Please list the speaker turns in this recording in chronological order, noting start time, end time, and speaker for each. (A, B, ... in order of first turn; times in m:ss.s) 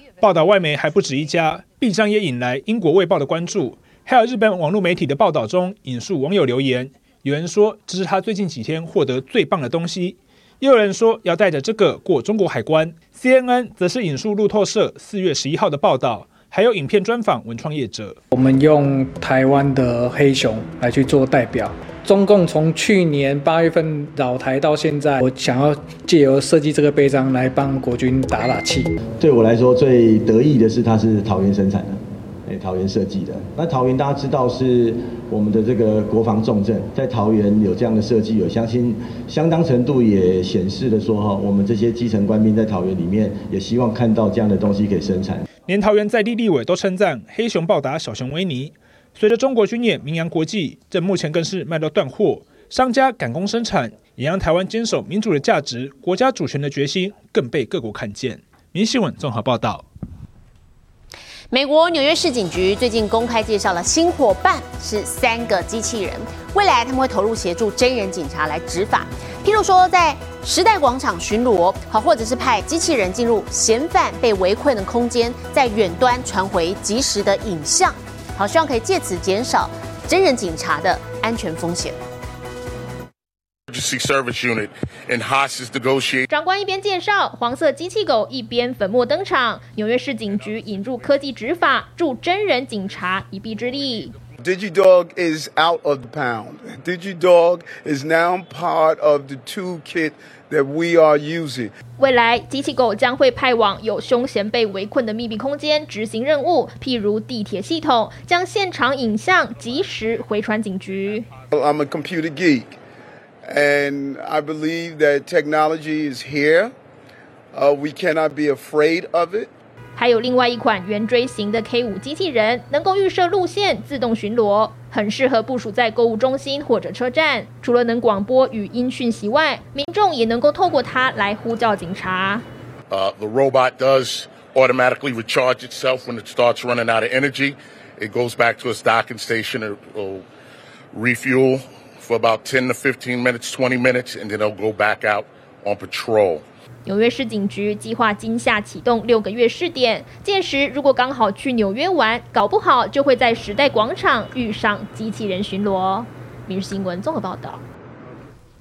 0:00.2-0:18.2 A
0:18.3-0:29.0 B
0:29.2-0:45.5 C
0:45.6-0:59.9 A
1:01.5-1:22.0 D
1:23.8-1:26.2 E
1:26.3-1:34.1 F
1:34.4-1:41.7 G
1:42.0-1:51.3 F
1:51.5-1:52.8 G
1:53.4-1:56.7 G
1:57.5-1:59.5 G
2:00.0-2:12.4 F
2:12.9-2:20.2 E
2:21.0-2:26.4 E
2:26.9-2:37.6 F